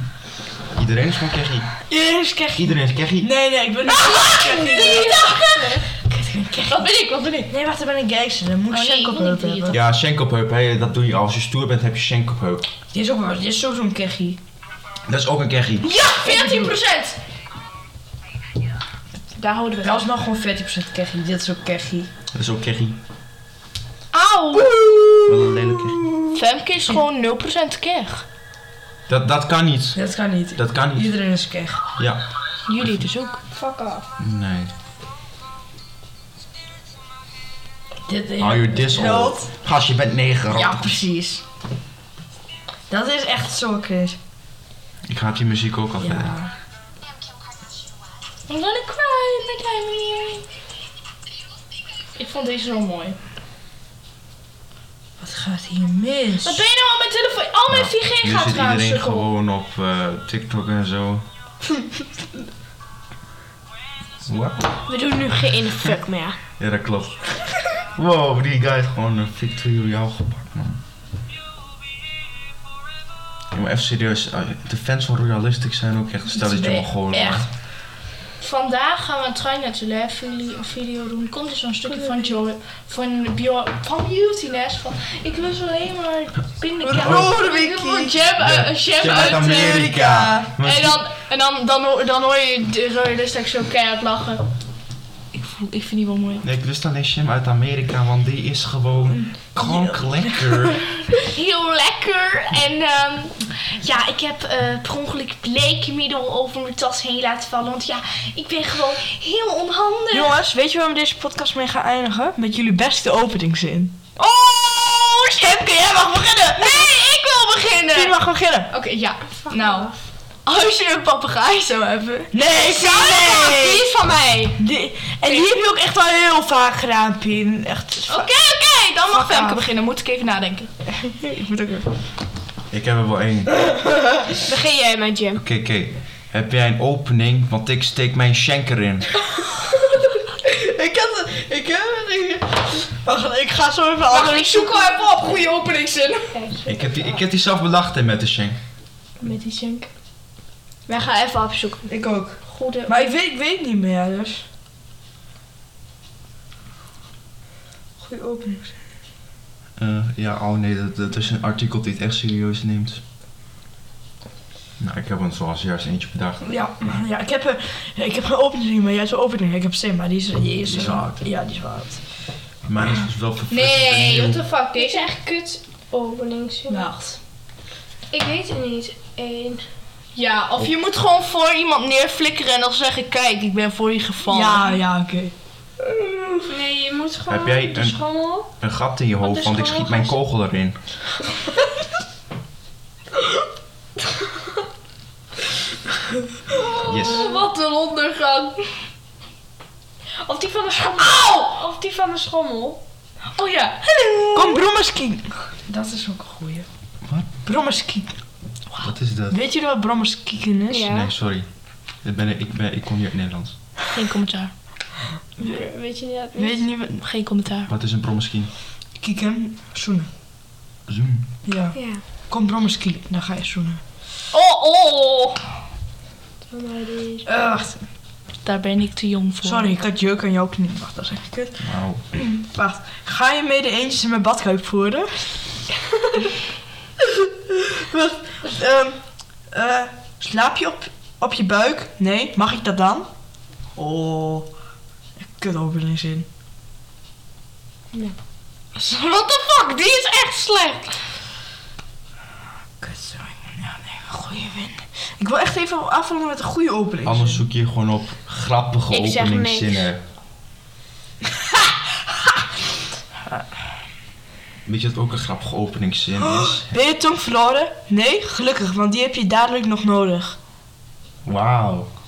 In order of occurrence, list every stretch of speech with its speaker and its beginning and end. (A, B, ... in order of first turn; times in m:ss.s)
0:00.7-0:01.8 A
0:01.9-0:05.1 B
0:02.5-0:03.3 A
0:03.9-0:05.9 C
0:04.7-0:05.2 D
0:06.0-0:06.9 B
0:06.7-0:07.5 C
0:07.5-0:09.8 B
0:08.7-0:09.8 C
0:09.7-0:12.7 A
0:12.9-0:14.4 B
0:15.1-0:15.9 A
0:15.8-0:17.2 C
0:16.0-0:16.7 B
0:19.3-0:20.0 C
0:19.8-0:22.1 B
0:22.3-0:23.0 A
0:24.1-0:24.8 C
0:24.6-0:26.4 B
0:25.3-0:26.0 A
0:26.3-0:28.2 C
0:29.1-0:30.0 A
0:29.9-0:31.8 B
0:30.6-0:31.1 A
0:32.0-0:32.2 A
0:32.7-0:33.4 C
0:33.5-0:34.1 D
0:34.2-0:34.7 A
0:38.1-0:39.5 B
0:38.4-0:41.0 A
0:40.5-0:41.4 B
0:42.9-0:44.2 B
0:45.1-0:46.4 A
0:46.0-0:46.5 B
0:48.5-0:50.4 C
0:52.2-0:53.2 C
0:55.2-0:56.6 B
0:56.4-0:59.3 C
0:57.7-1:01.2 A
1:04.2-1:04.6 A
1:04.9-1:06.4 D
1:06.6-1:10.8 A
1:13.5-1:17.5 A
1:16.3-1:17.3 B
1:17.1-1:17.4 C
1:18.4-1:30.0 C
1:26.8-1:28.2 B
1:26.9-1:27.3 A
1:28.4-1:31.0 A
1:29.4-1:30.5 B
1:30.6-1:34.4 C
1:35.3-1:36.4 C
1:36.4-1:40.9 A
1:39.6-1:40.4 B
1:41.1-1:50.4 C
1:50.1-1:54.0 B
1:54.2-1:58.1 C
1:55.4-1:56.9 B
1:57.9-1:58.7 B
1:58.7-1:59.9 C
1:59.4-1:59.9 D
2:00.4-2:02.3 C
2:02.3-2:03.8 B
2:02.7-2:04.6 D
2:04.6-2:08.3 B
2:08.1-2:10.7 C
2:09.1-2:09.7 B
2:11.0-2:11.9 B
2:12.7-2:13.7 A
2:13.8-2:14.1 B
2:14.4-2:15.4 D
2:15.4-2:19.1 A
2:20.4-2:26.2 B
2:24.1-2:25.6 D
2:26.3-2:27.2 D
2:26.6-2:28.6 A
2:29.2-2:29.9 D
2:30.9-2:31.9 D
2:31.9-2:34.4 B
2:32.5-2:33.1 C
2:38.0-2:38.8 B
2:39.8-2:43.0 A
2:44.8-2:46.4 A
2:46.4-2:52.0 B
2:50.6-2:51.2 A
2:52.6-2:54.4 A
2:53.5-2:55.1 C
2:54.7-2:56.9 D
2:56.7-2:57.0 B
2:58.1-2:59.6 D
3:00.1-3:04.8 C
3:04.3-3:05.3 B
3:06.4-3:08.5 D
3:07.3-3:08.0 A
3:08.6-3:10.8 A
3:09.2-3:10.2 D
3:16.6-3:17.4 D
3:16.6-3:18.7 C
3:16.8-3:17.3 A
3:20.2-3:22.8 D
3:21.0-3:21.5 C
3:23.3-3:24.6 C
3:24.3-3:26.7 B
3:27.4-3:28.2 B
3:28.8-3:29.4 A
3:29.3-3:30.8 B
3:30.7-3:31.1 D
3:30.8-3:33.6 A
3:33.9-3:34.5 C
3:35.4-3:36.6 D
3:36.3-3:37.0 B
3:36.8-3:37.7 C
3:37.7-3:38.5 A
3:39.0-3:40.1 B
3:40.9-3:41.3 A
3:41.4-3:43.8 B
3:41.7-3:42.0 D
3:44.3-3:45.4 C
3:46.5-3:47.3 D
3:47.2-3:47.8 B
3:48.4-3:49.7 C
3:49.4-3:55.4 B
3:51.6-3:52.0 A
3:57.0-4:03.1 B
4:03.7-4:04.5 B
4:05.2-4:06.3 B
4:08.7-4:10.9 C
4:12.8-4:17.4 B
4:17.0-4:20.0 A
4:18.9-4:19.9 D
4:21.4-4:21.7 B
4:24.6-4:26.7 A
4:26.2-4:30.4 B
4:31.2-4:31.9 A